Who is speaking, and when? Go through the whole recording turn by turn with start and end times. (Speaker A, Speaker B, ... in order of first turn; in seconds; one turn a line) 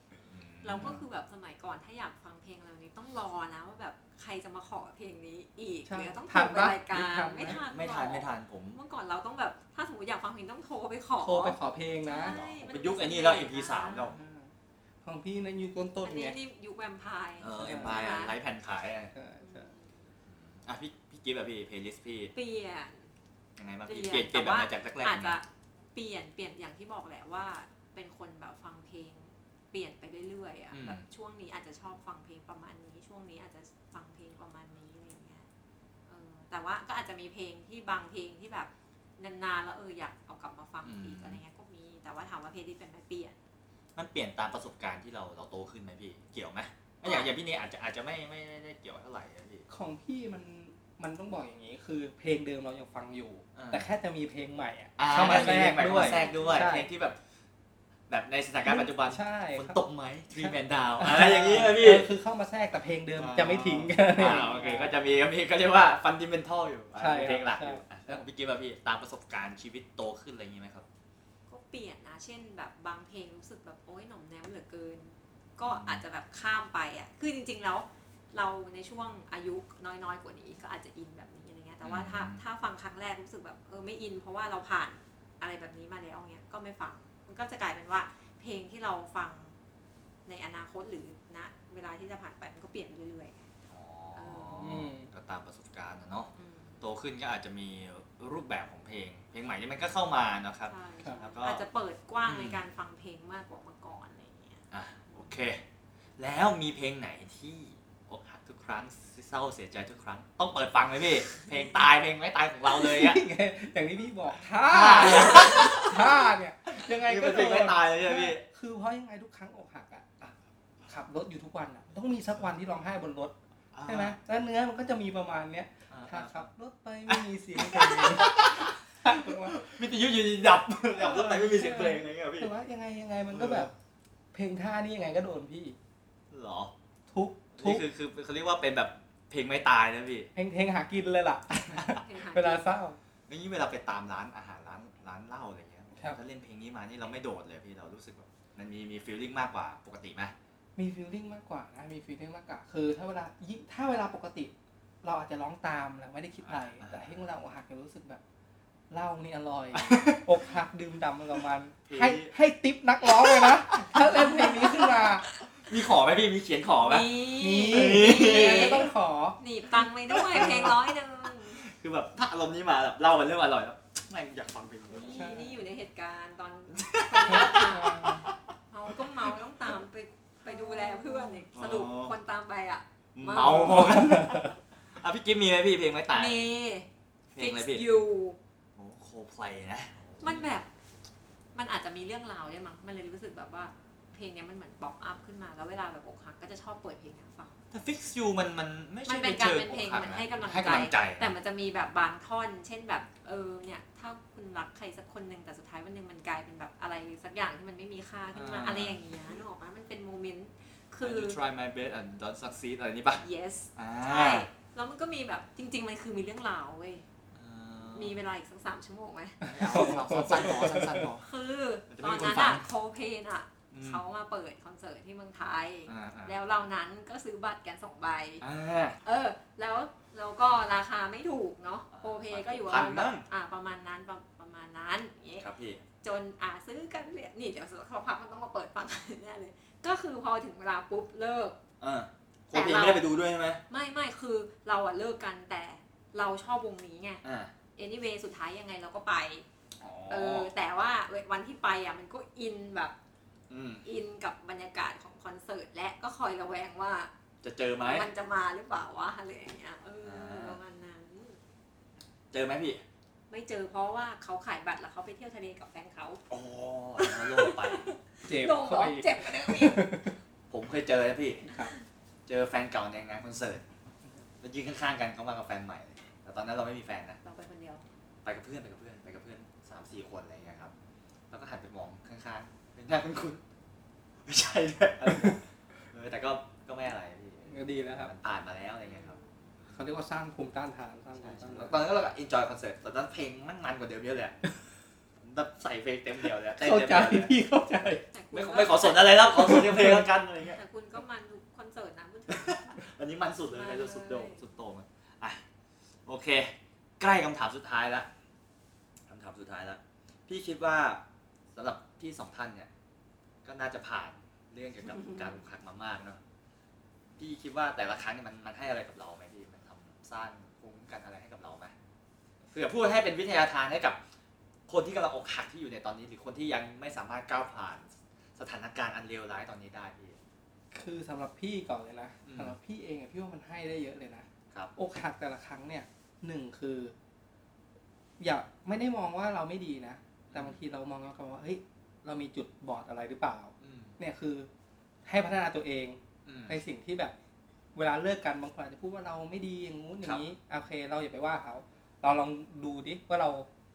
Speaker A: 0.3-1.0
Speaker B: 0.6-14.1
Speaker C: 5.9-7.6
Speaker A: 7.6-8.8
Speaker C: 11.2-12.4
Speaker A: 12.2-14.2
Speaker C: 14.0-14.5
Speaker C: 15.0-16.4
Speaker B: 16.0-18.4
Speaker A: 17.4-19.1
Speaker C: 17.6-18.0
Speaker C: 19.1-19.7
Speaker B: 19.4-20.1
Speaker A: 20.3-22.3
Speaker B: 22.3-23.1
Speaker A: 23.6-25.4
Speaker B: 23.9-35.5
Speaker A: 30.7-31.0
Speaker B: 36.1-43.4
Speaker A: 40.8-41.4
Speaker A: 44.0-49.6
Speaker B: 47.0-47.3
Speaker C: 49.7-56.9
Speaker A: 53.5-53.9
Speaker A: 55.0-57.2
Speaker B: 55.2-56.7
Speaker A: 58.1-62.1
Speaker C: 58.6-59.8
Speaker C: 60.3-64.9
Speaker A: 63.2-70.8
Speaker B: 64.3-64.7
Speaker C: 67.0-68.2
Speaker B: 71.5-89.5
Speaker A: 75.6-76.0
Speaker A: 81.8-82.4
Speaker B: 90.2-93.5
Speaker A: 93.7-101.6
Speaker B: 94.1-94.8
Speaker C: 94.6-95.1
Speaker B: 96.3-96.8
Speaker B: 100.7-104.6
Speaker A: 102.2-102.6
Speaker A: 104.7-105.6
Speaker A: 106.2-113.2
Speaker C: 112.7-120.3
Speaker A: 114.6-116.1
Speaker A: 116.7-118.4
Speaker C: 120.9-123.3
Speaker A: 123.7-124.2
Speaker C: 123.8-129.6
Speaker A: 125.9-126.5
Speaker A: 127.1-132.5
Speaker C: 131.0-133.7
Speaker A: 133.3-133.7
Speaker C: 134.3-135.8
Speaker A: 136.3-136.7
Speaker C: 137.1-137.8
Speaker A: 137.6-140.3
Speaker C: 140.3-143.0
Speaker B: 141.9-142.8
Speaker A: 143.3-150.3
Speaker C: 150.8-158.2
Speaker A: 156.4-157.2
Speaker C: 158.9-165.2
Speaker A: 159.7-160.2
Speaker A: 161.8-162.3
Speaker A: 163.0-164.8
Speaker B: 164.4-164.9
Speaker A: 165.5-168.9
Speaker B: 166.8-171.6
Speaker C: 167.3-169.4
Speaker A: 170.1-175.4
Speaker C: 170.3-170.6
Speaker B: 174.9-184.2
Speaker C: 175.1-175.5
Speaker A: 176.7-179.8
Speaker C: 177.5-178.3
Speaker A: 180.4-182.1
Speaker A: 183.2-186.4
Speaker C: 183.7-184.5
Speaker B: 186.1-188.4
Speaker A: 187.3-187.8
Speaker A: 188.8-190.5
Speaker B: 190.2-190.7
Speaker B: 191.5-197.6
Speaker A: 197.7-201.3
Speaker B: 199.0-211.4
Speaker A: 208.3-209.0
Speaker A: 211.0-213.2
Speaker B: 213.2-217.0
Speaker A: 213.8-214.5
Speaker A: 217.3-218.2
Speaker B: 217.9-228.4
Speaker C: 219.4-221.1
Speaker A: 219.4-221.3
Speaker A: 221.9-222.7
Speaker A: 223.7-224.0
Speaker A: 225.8-226.4
Speaker A: 228.4-229.0
Speaker B: 229.0-235.5
Speaker A: 231.9-233.3
Speaker A: 235.4-235.8
Speaker B: 236.0-241.6
Speaker A: 241.8-243.6
Speaker B: 242.5-243.1
Speaker B: 243.7-247.2
Speaker A: 247.2-247.5
Speaker B: 247.8-249.4
Speaker A: 249.8-250.5
Speaker B: 250.1-252.9
Speaker A: 253.5-253.8
Speaker B: 253.8-257.1
Speaker A: 257.4-258.1
Speaker B: 257.8-261.4
Speaker A: 260.0-260.6
Speaker A: 262.3-262.8
Speaker B: 263.3-266.2
Speaker A: 266.3-267.9
Speaker B: 267.0-269.9
Speaker C: 268.2-270.1
Speaker A: 270.5-271.5
Speaker C: 271.4-271.7
Speaker A: 272.3-273.6
Speaker A: 274.4-277.2
Speaker B: 277.2-277.8
Speaker A: 278.2-280.7
Speaker A: 281.3-283.4
Speaker A: 284.2-289.8
Speaker C: 287.5-288.1
Speaker B: 288.8-289.5
Speaker C: 289.7-291.8
Speaker A: 291.2-294.4
Speaker A: 295.2-297.3
Speaker C: 296.6-298.0
Speaker B: 298.1-299.6
Speaker A: 298.3-300.6
Speaker C: 299.3-300.1
Speaker B: 300.5-302.9
Speaker A: 302.3-305.4
Speaker B: 303.5-304.4
Speaker A: 306.1-308.1
Speaker A: 309.1-312.7
Speaker A: 313.4-316.2
Speaker B: 314.9-315.4
Speaker A: 317.2-321.7
Speaker A: 322.5-324.0
Speaker A: 324.7-330.2
Speaker C: 330.7-336.9
Speaker A: 332.2-332.5
Speaker C: 338.2-344.5
Speaker A: 340.3-340.6
Speaker A: 343.6-343.9
Speaker C: 345.1-347.1
Speaker A: 346.2-346.6
Speaker C: 347.7-353.5